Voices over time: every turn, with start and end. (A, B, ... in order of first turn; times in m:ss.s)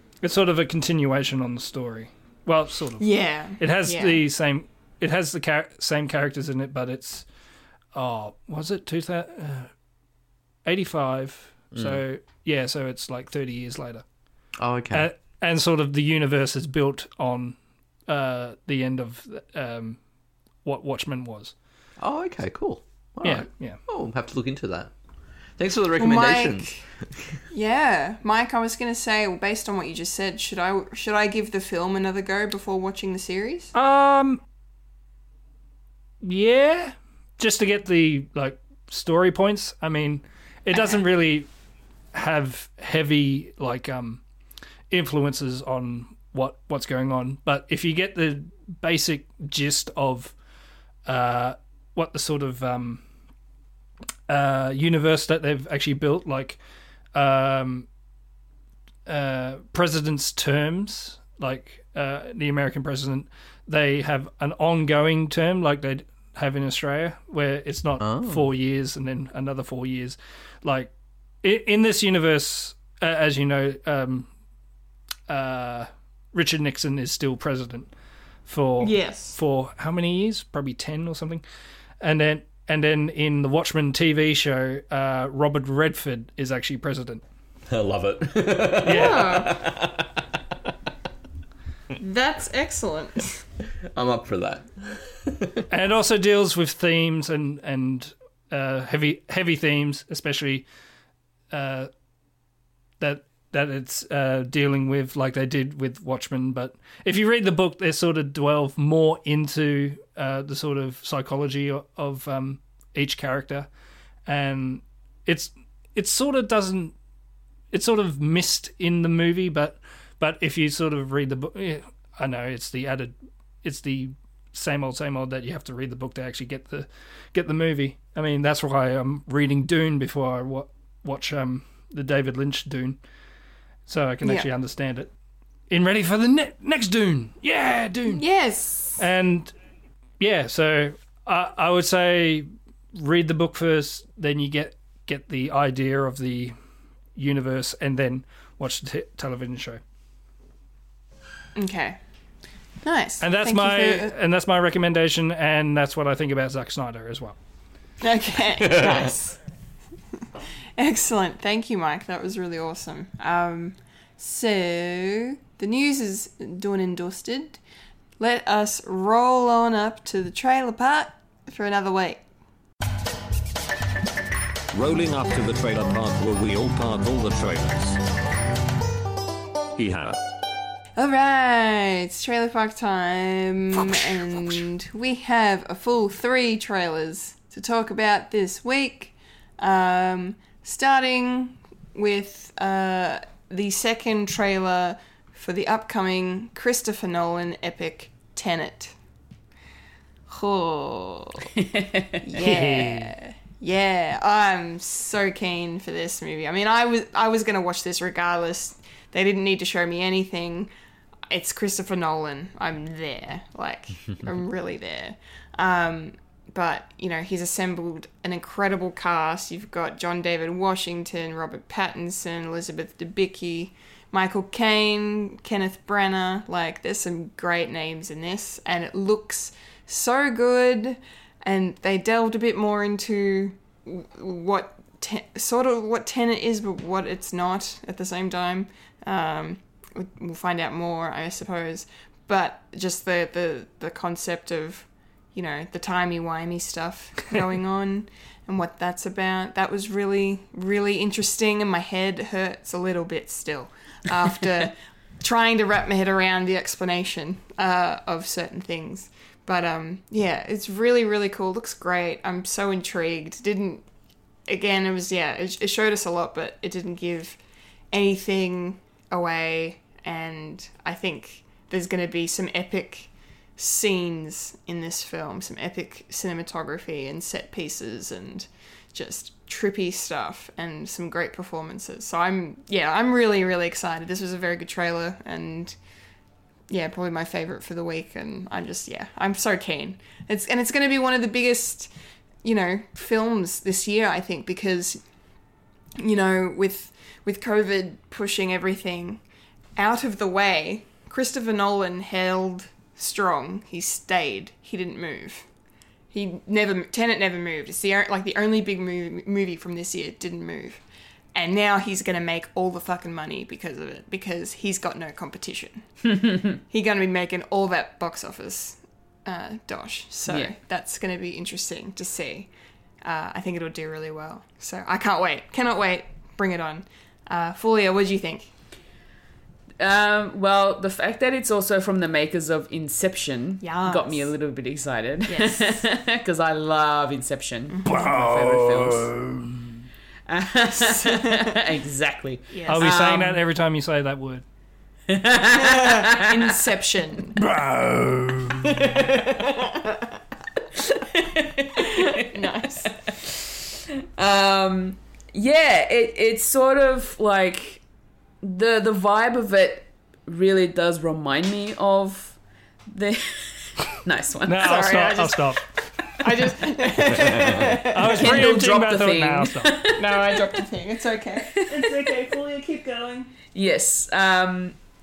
0:00.2-0:07.3 A
0:03.0-0:04.2 B
0:07.9-0:09.7 A
0:10.6-0:14.0 A
0:11.7-0:12.0 C
0:14.6-0:15.1 C
0:14.9-0:20.0 A
0:20.6-0:21.6 A
0:22.0-0:24.9 C
0:23.2-0:23.8 A
0:25.6-0:27.4 C
0:26.0-0:26.8 B
0:27.5-0:33.7 B
0:33.7-0:34.4 A
0:36.2-0:41.5 A
0:40.7-0:41.0 B
0:42.1-0:44.2 A
0:44.9-0:50.4 A
0:51.1-0:53.0 A
0:54.3-0:56.6 A
0:57.1-0:57.9 A
0:59.1-1:10.9 A
1:08.0-1:08.5 C
1:11.4-1:14.3 A
1:15.3-1:17.9 A
1:18.5-1:21.4 A
1:18.8-1:19.4 B
1:22.0-1:27.2 A
1:27.7-1:30.1 C
1:28.8-1:29.4 A
1:28.8-1:29.6 B
1:32.0-1:33.4 B
1:33.9-1:35.6 C
1:35.7-1:40.7 A
1:41.5-1:41.9 A
1:43.0-1:53.7 A
1:54.3-1:57.0 A
1:57.7-2:13.0 A
2:13.9-2:15.1 A
2:14.2-2:14.5 B
2:15.7-2:18.2 A
2:18.1-2:19.0 B
2:19.0-2:19.5 A
2:20.2-2:26.6 A
2:27.2-2:29.8 A
2:31.6-2:32.0 B
2:32.8-2:34.1 B
2:33.2-2:37.4 A
2:38.0-2:39.4 B
2:40.8-2:47.6 B
2:48.2-2:52.2 B
2:54.7-2:58.0 D
2:59.8-3:00.2 D
3:01.0-3:19.0 B
3:20.3-3:21.5 B
3:21.6-3:22.2 E
3:22.2-3:30.7 B
3:22.4-3:23.1 A
3:31.3-4:23.9 B
4:24.5-4:27.4 B
4:27.9-4:45.8 B
4:46.7-4:51.9 B
4:52.4-4:55.0 B
4:56.0-4:59.2 B
4:59.8-5:05.5 B
5:06.1-5:10.8 B
5:11.4-5:22.5 B
5:20.3-5:20.5 E
5:23.0-5:28.5 B
5:29.8-5:39.1 E
5:33.6-5:34.3 B
5:35.3-5:35.8 B
5:37.7-5:38.0 B
5:37.8-5:39.7 A
5:40.3-5:43.4 E
5:40.7-5:41.5 B
5:42.5-5:42.9 B
5:42.7-5:44.4 A
5:45.1-5:46.5 E
5:45.5-5:47.4 B
5:47.4-5:49.1 A
5:49.2-5:50.0 B
5:50.8-5:52.1 E
5:51.8-5:53.0 B
5:53.1-5:53.6 E
5:54.2-5:57.8 E
5:58.4-6:02.4 E
6:02.9-6:04.8 E
6:04.5-6:05.6 A
6:04.6-6:08.4 B
6:07.9-6:09.8 A
6:08.0-6:10.4 E
6:10.0-6:13.3 B
6:11.6-6:12.0 E
6:13.5-6:14.8 E